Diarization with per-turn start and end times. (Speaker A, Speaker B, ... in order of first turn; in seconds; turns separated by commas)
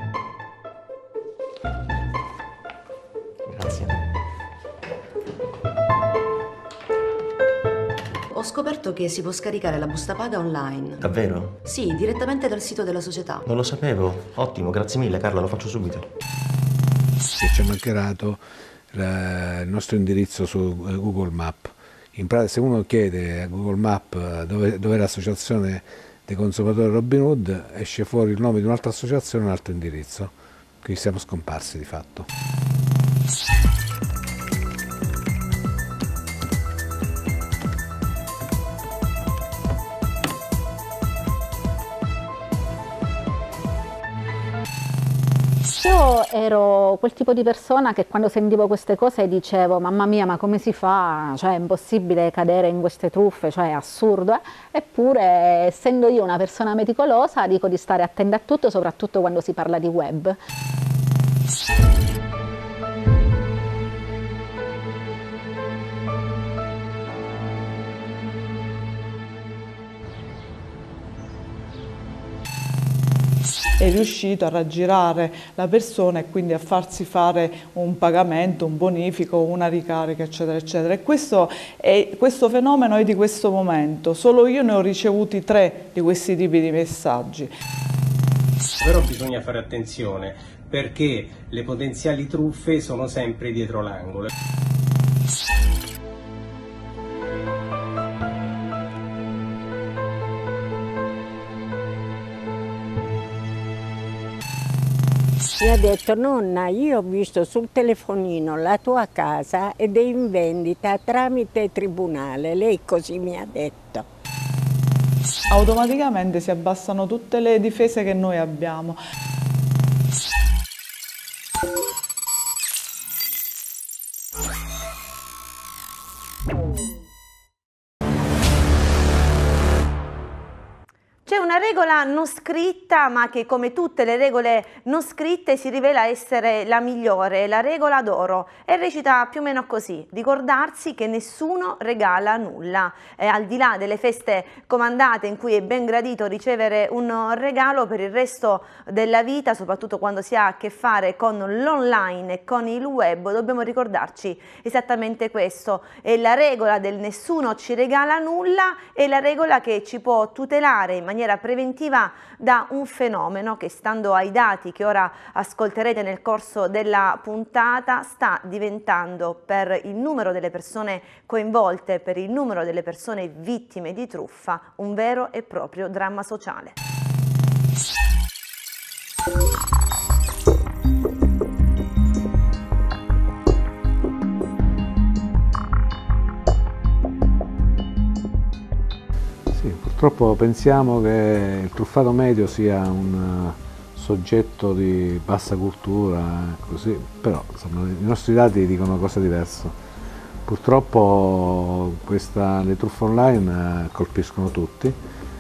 Speaker A: 3.5-4.0, Speaker B: 8.3-11.0, Speaker A: 11.0-11.6, Speaker B: 11.6-13.5, Speaker A: 13.5-16.1, Speaker C: 17.4-32.3, Speaker D: 45.8-60.4, Speaker E: 73.8-87.5, Speaker F: 88.8-94.3, Speaker G: 105.6-114.1, Speaker E: 115.5-119.0, Speaker H: 131.3-176.8, Speaker C: 189.5-199.8, Speaker C: 200.4-205.0